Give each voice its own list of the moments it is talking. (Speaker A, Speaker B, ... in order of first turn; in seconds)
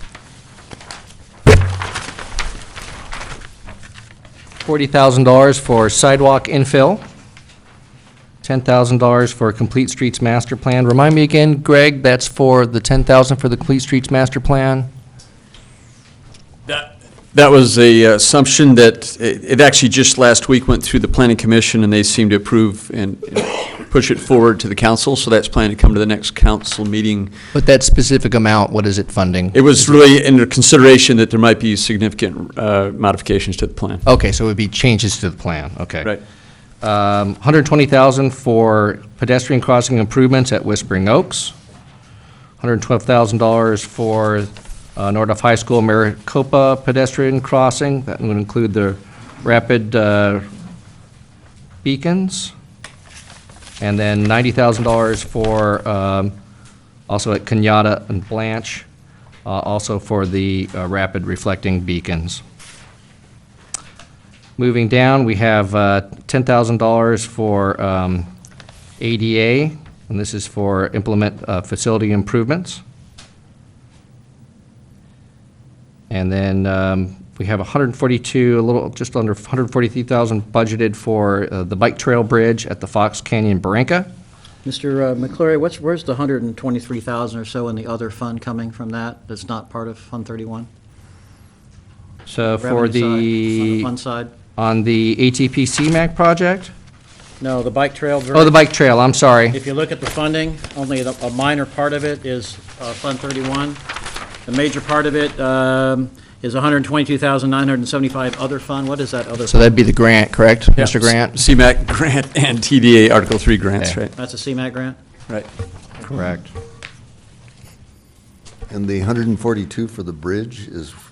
Speaker A: 4.6-7.0, 8.4-14.9, 27.5-29.9, 34.0-36.1, 36.8-41.5, 42.6-50.5, 51.8-52.5, 53.8-56.3, 57.1-58.9, 59.5-62.4, 64.6-68.3, 69.0-72.8, 76.1-84.1, 92.3-93.9, 94.6-96.7, 98.3-99.6, 109.5-111.4, 116.1-116.5
Speaker B: 16.7-27.3, 29.5-34.0, 110.8-114.1
Speaker C: 84.7-90.7, 92.6-94.3, 97.4-98.6, 99.5-103.8, 104.5-109.7, 114.1-115.0
Speaker D: 118.7-121.0